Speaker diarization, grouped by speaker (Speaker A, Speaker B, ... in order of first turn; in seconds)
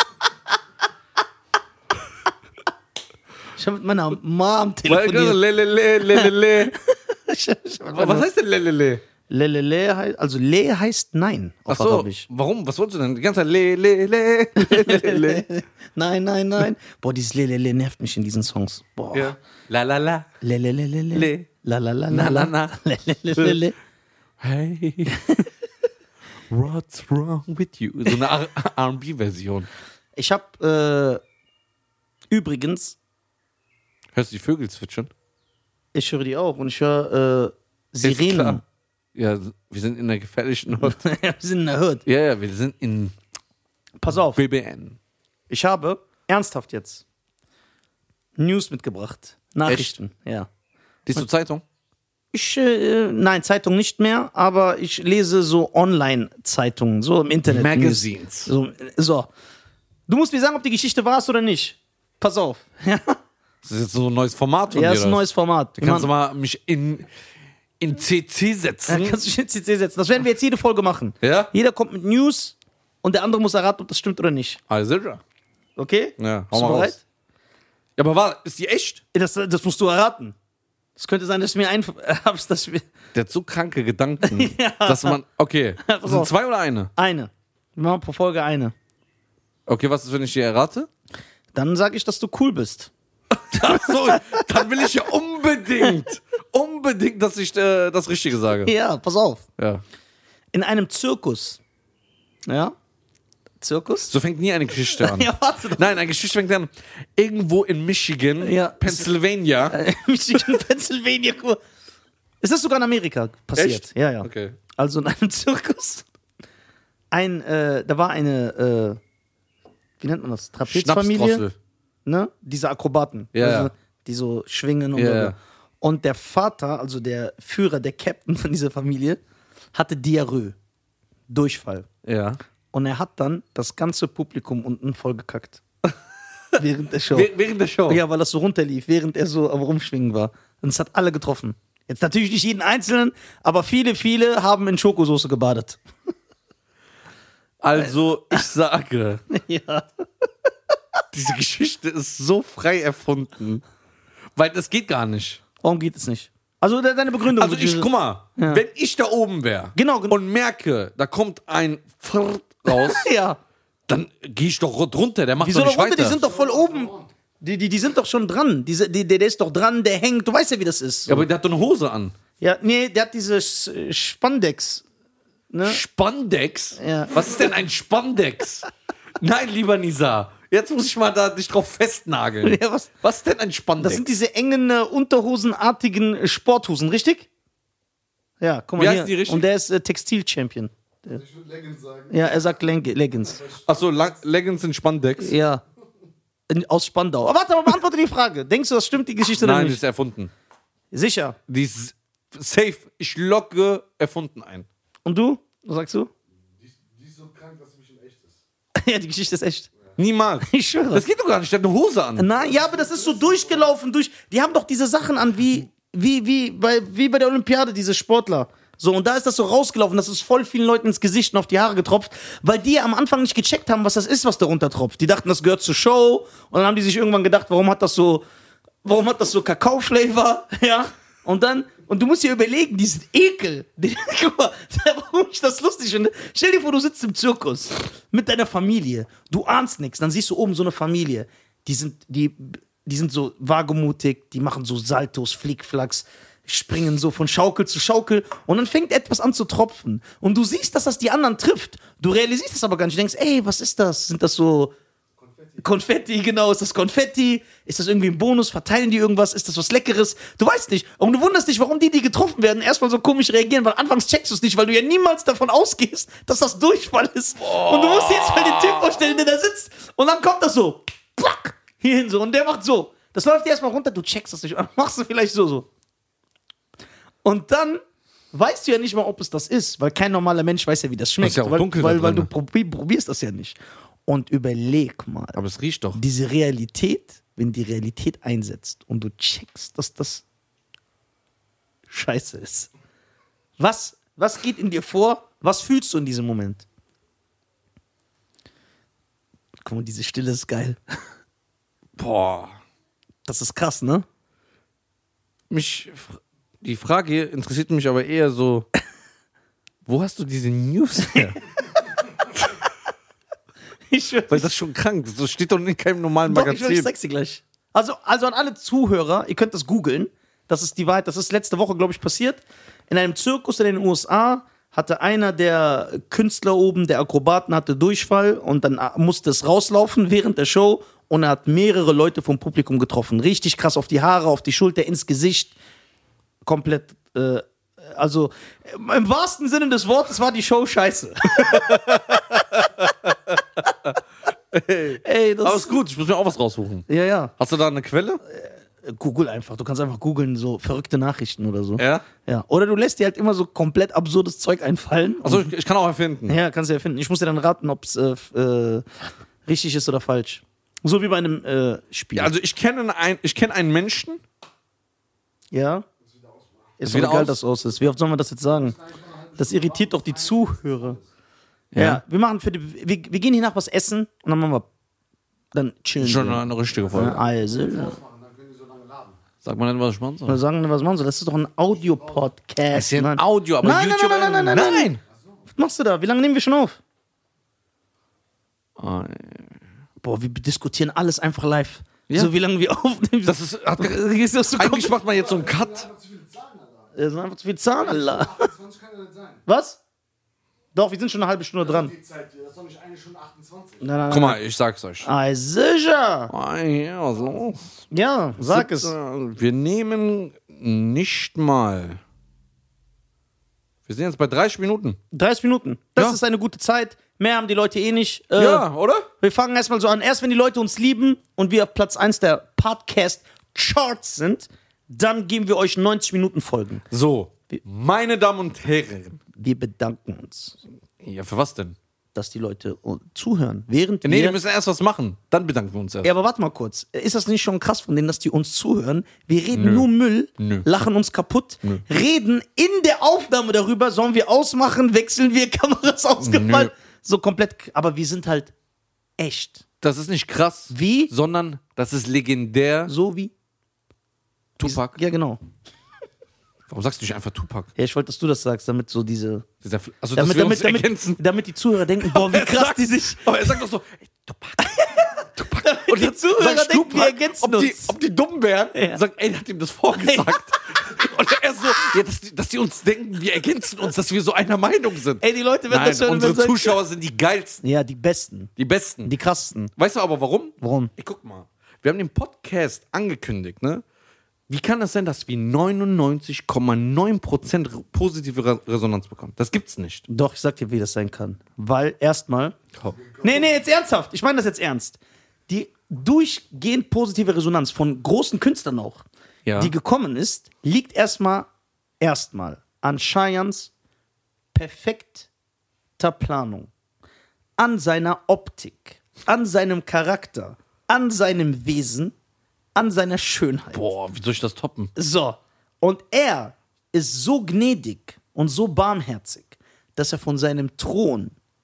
Speaker A: 3.6-5.4, 6.1-8.3, 9.3-12.3, 14.6-19.4, 20.4-23.8, 25.1-25.5, 30.1-31.2, 32.3-33.0, 35.9-38.6, 40.8-42.0, 44.0-44.4, 45.5-47.0, 48.4-50.5, 52.3-59.3, 60.1-63.2, 64.7-66.1, 68.9-74.6, 75.8-77.0, 79.1-80.3, 81.0-82.9, 84.2-85.2, 85.8-86.3, 87.0-88.7, 91.5-92.9, 93.5-94.8, 98.6-99.4, 100.5-101.6, 102.5-102.7, 103.6-104.1, 104.8-105.9, 108.4-109.1, 109.7-111.6, 112.4-116.0, 117.1-119.0, 120.0-121.4, 122.0-129.2, 129.7-130.6, 131.3-131.9, 132.7-135.6, 136.6-137.3, 137.9-145.8, 149.3-150.0, 155.6-158.6, 159.8-160.2, 162.7-163.4, 165.4-171.2, 172.4-174.8, 175.5-175.8, 176.8-177.4, 182.4-182.9, 183.8-187.3, 188.4-191.2, 192.1-193.4, 195.2-195.6, 196.5-199.8, 200.9-201.4, 205.0-206.1, 208.7-209.7, 210.4-211.1, 212.2-228.2, 228.8-254.7, 255.6-275.7, 277.2-277.8, 278.3-285.4, 285.9-290.2, 291.9-292.7, 293.6-296.6, 299.6-301.0, 303.2-304.0, 313.9-314.5, 316.3-335.5, 336.4-341.8, 345.0-345.8, 346.9-347.3, 348.2-355.5, 356.3-358.9, 359.4-362.3, 365.5-365.9, 366.8-368.7, 369.4-371.0, 371.7-374.7, 375.5-376.4, 376.9-377.9, 380.3-384.9, 385.5-386.8, 390.0-394.9, 396.9-398.5, 399.5-399.8, 400.7-401.9, 403.8-404.4, 405.0-406.3, 407.9-408.9, 415.1-418.6, 419.2-426.8, 429.3-430.6, 432.1-434.4, 436.0-448.5, 449.2-449.6, 450.7-451.1, 452.9-453.3, 454.6-455.4, 457.8-459.4, 460.1-463.5, 464.6-467.9, 468.7-469.0, 469.9-470.4, 475.2-476.8, 477.6-478.5, 479.0-479.7, 480.6-480.9, 490.1-492.6, 493.2-499.0, 499.6-501.5, 502.0-503.7, 504.5-505.3, 506.0-506.7, 507.6-512.1, 512.7-513.8, 515.0-521.4
Speaker B: 4.9-6.7, 7.9-9.0, 11.7-15.4, 19.1-20.3, 21.1-21.5, 22.1-22.8, 24.4-25.1, 26.5-29.7, 34.1-35.1, 38.0-38.6, 39.1-41.0, 42.0-43.1, 44.3-45.0, 49.7-49.9, 51.0-51.6, 57.5-58.5, 63.6-65.2, 65.8-67.1, 67.8-69.2, 71.2-71.5, 74.7-75.2, 76.2-77.0, 78.0-79.0, 83.1-86.9, 89.7-90.9, 93.3-98.7, 99.6-99.8, 104.1-109.8, 113.5-114.6, 120.7-121.5, 123.3-123.7, 124.9-125.4, 132.0-132.4, 137.1-138.0, 147.6-149.2, 151.1-153.6, 154.3-155.4, 157.2-163.1, 163.9-166.2, 171.1-172.1, 175.6-178.7, 179.2-184.1, 188.8-189.5, 193.7-195.3, 199.4-200.3, 201.5-204.7, 210.0-212.3, 267.4-269.2, 281.2-282.3, 285.4-286.0, 302.0-302.6, 305.5-308.7, 309.9-311.4, 314.3-316.9, 341.4-343.4, 344.5-346.9, 347.4-348.2, 351.8-352.1, 355.2-356.4, 362.1-364.2, 366.9-367.4, 371.7-372.0, 376.0-377.2, 379.4-380.4, 382.7-385.0, 388.8-389.5, 393.2-395.9, 404.1-405.1, 406.3-407.8, 408.4-412.0, 413.9-415.0, 418.4-419.1, 426.9-429.2, 431.0-431.8, 434.0-436.1, 439.5-439.9, 440.4-440.6, 446.2-446.7, 449.8-452.9, 454.6-455.0, 456.7-457.7, 459.6-461.2, 462.0-477.6, 478.6-479.1, 479.8-483.8, 484.5-490.0, 499.4-499.7, 513.7-514.9
Speaker C: 166.0-167.1, 191.1-192.6, 193.2-194.2, 206.6-208.4, 212.3-213.7, 255.2-255.9, 366.0-366.8, 368.5-371.1, 376.7-379.2, 381.7-382.3, 385.0-385.5, 395.1-397.0, 397.8-399.4, 401.6-403.9, 492.9-493.6